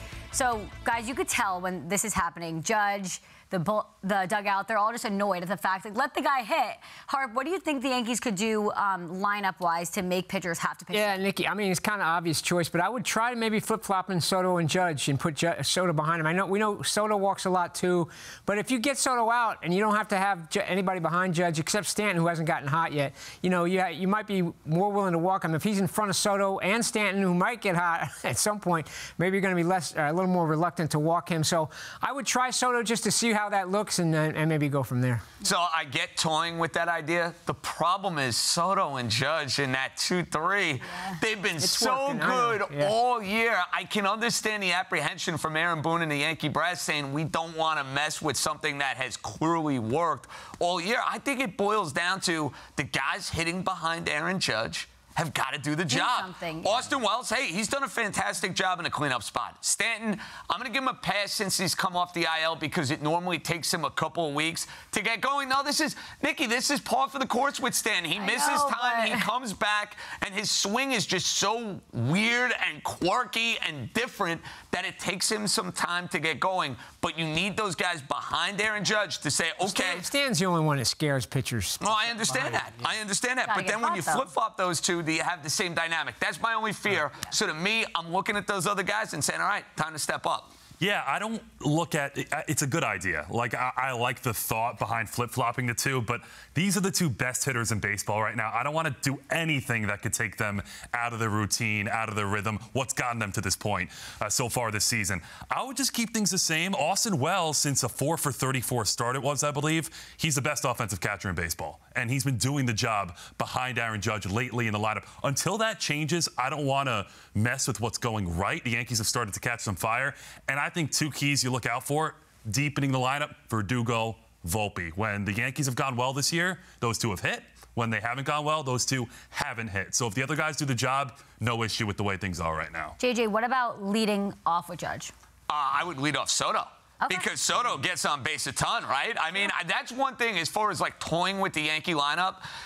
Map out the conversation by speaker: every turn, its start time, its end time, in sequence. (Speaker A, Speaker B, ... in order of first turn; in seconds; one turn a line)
Speaker A: 0.3-11.2
Speaker B: 10.9-35.3
Speaker C: 35.4-80.1
Speaker B: 41.6-42.9
Speaker A: 55.9-56.9
Speaker A: 68.1-69.3
Speaker B: 79.6-82.9
Speaker C: 81.8-90.5
Speaker A: 83.5-84.3
Speaker D: 90.8-133.0
Speaker A: 133.0-135.1
Speaker C: 135.5-142.4
Speaker A: 137.0-137.3